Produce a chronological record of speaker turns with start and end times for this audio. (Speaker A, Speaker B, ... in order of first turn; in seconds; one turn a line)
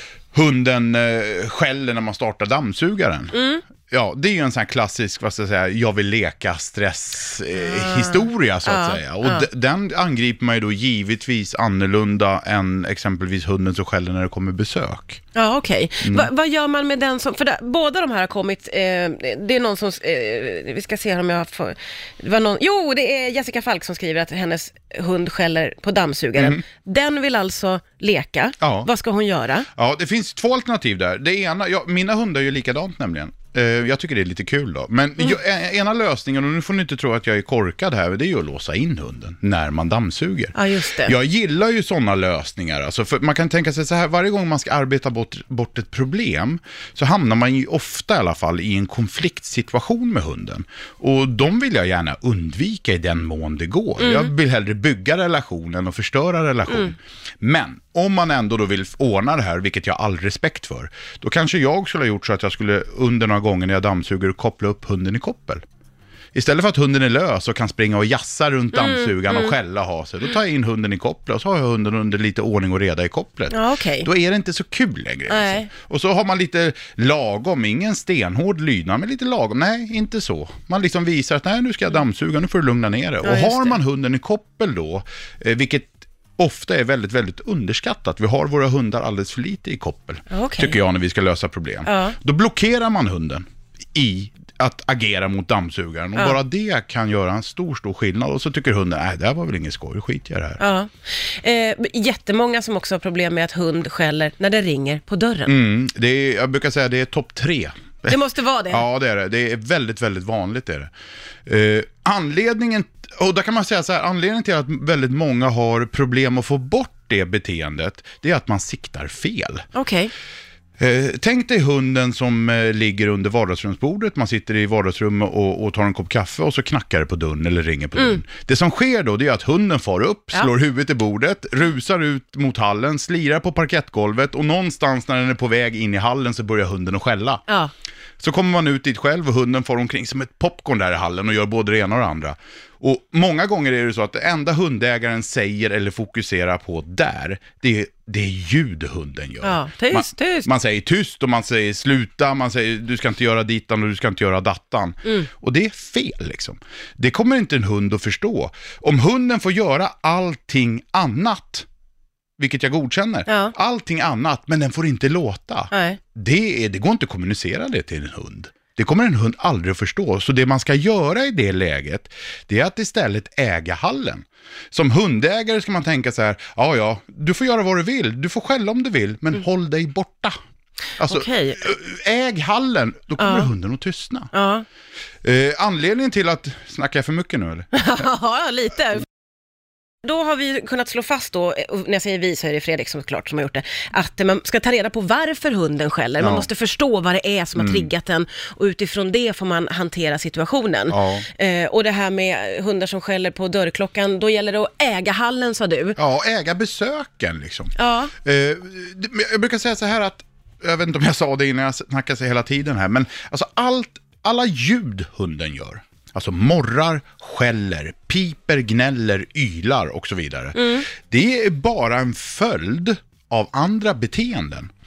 Speaker A: 0.3-3.3
Speaker B: 3.3-3.6
Speaker A: 3.9-15.2
Speaker B: 7.6-9.5
Speaker B: 15.3-29.7
Speaker A: 16.0-16.3
Speaker A: 26.4-26.6
Speaker A: 28.6-28.9
Speaker A: 29.8-65.6
Speaker B: 40.5-41.1
Speaker B: 54.0-54.3
Speaker A: 66.3-100.6
Speaker B: 68.8-69.5
Speaker B: 73.5-74.1
Speaker B: 75.3-75.7
Speaker B: 83.2-83.8
Speaker B: 90.3-90.8
Speaker B: 91.9-92.2
Speaker B: 100.6-105.5
Speaker A: 105.5-108.2
Speaker B: 108.1-108.8
Speaker A: 108.7-110.9
Speaker A: 111.5-119.7
Speaker B: 119.8-120.1
Speaker A: 120.8-137.4
Speaker A: 138.2-161.7
Speaker B: 149.4-150.5
Speaker A: 162.4-180.4
Speaker B: 163.3-163.5
Speaker B: 165.7-166.0
Speaker A: 181.0-184.3
Speaker B: 181.1-181.6
Speaker B: 183.2-183.5
Speaker B: 184.3-184.7
Speaker A: 185.2-187.9
Speaker B: 187.7-189.1
Speaker B: 190.0-206.0
Speaker A: 196.2-196.5
Speaker A: 197.6-197.9
Speaker A: 200.9-201.3
Speaker A: 206.0-224.7
Speaker B: 207.8-208.1
Speaker B: 220.6-220.9